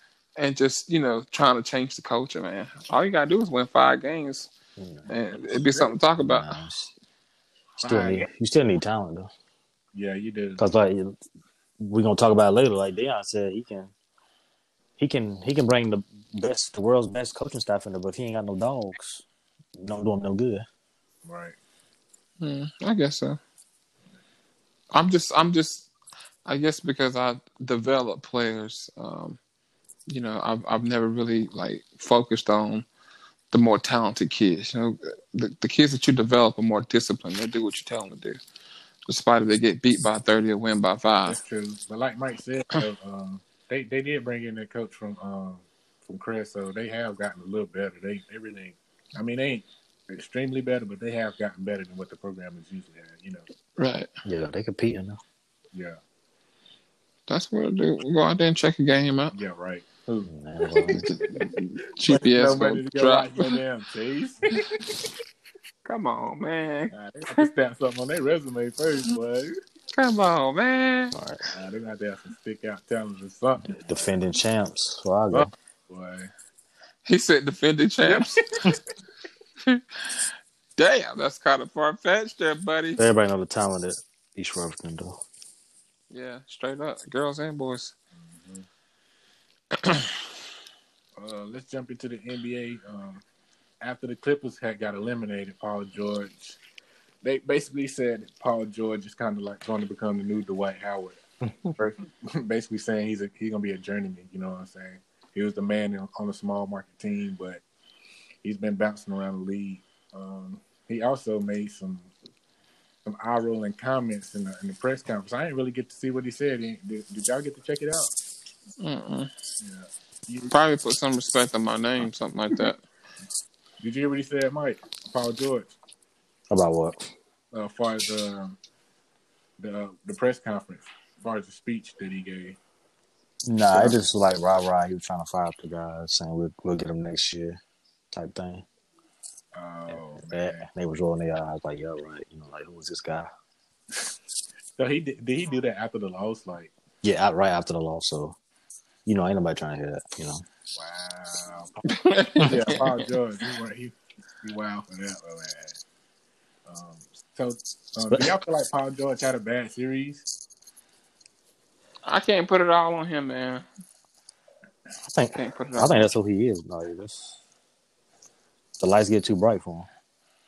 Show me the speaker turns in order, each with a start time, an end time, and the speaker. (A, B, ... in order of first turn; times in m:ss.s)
0:00.4-0:04.5 A
0:04.8-0:05.1 B
0:05.1-0:06.5 A
0:05.5-0:05.9 C
0:06.2-0:06.9 B
0:07.8-0:08.3 C
0:07.8-0:09.3 B
0:09.9-0:10.6 C
0:10.6-0:11.2 B
0:11.8-0:13.9 B
0:15.0-0:19.2 B
0:19.8-0:20.6 B
0:21.2-0:21.6 C
0:22.4-0:23.4 A
0:24.9-0:25.9 A
0:26.4-0:29.4 A
0:30.1-0:32.8 A
0:33.5-0:38.4 A
0:39.1-0:41.4 A
0:41.2-0:53.4 C
0:53.8-0:54.1 A
0:54.2-0:55.2 B
0:55.7-0:56.0 C
0:57.3-0:59.3 A
0:59.3-1:01.4 C
1:00.3-1:01.1 B
1:01.1-1:03.6 A
1:02.0-1:04.6 C
1:05.8-1:07.5 A
1:06.9-1:09.5 C
1:09.9-1:11.1 A
1:11.1-1:11.4 B
1:11.5-1:14.1 C
1:13.7-1:15.5 B
1:15.3-1:16.3 C
1:17.0-1:18.4 A
1:18.0-1:18.7 C
1:19.6-1:23.0 A
1:23.0-1:25.2 B
1:26.1-1:27.9 A
1:28.2-1:28.6 C
1:31.2-1:33.2 C
1:33.8-1:36.6 C
1:37.2-1:41.2 C
1:41.8-1:47.6 C
1:48.4-1:52.1 C
1:53.0-1:58.1 C
1:58.8-1:59.3 A
1:59.6-2:00.5 C
2:00.5-2:02.8 A
2:03.8-2:05.7 C
2:06.5-2:07.0 B
2:07.5-2:08.6 C
2:09.6-2:12.6 C
2:13.4-2:17.6 B
2:13.7-2:14.0 C
2:18.1-2:18.6 B
2:19.5-2:20.7 C
2:19.9-2:23.3 B
2:24.8-2:26.7 C
2:27.0-2:28.4 B
2:29.0-2:30.4 B
2:30.7-2:31.9 C
2:31.9-2:33.0 A
2:32.4-2:35.8 C
2:36.7-2:40.2 C
2:38.1-2:38.3 B
2:42.0-2:43.6 A
2:45.1-2:47.4 B
2:45.3-2:46.1 A
2:48.8-2:49.9 B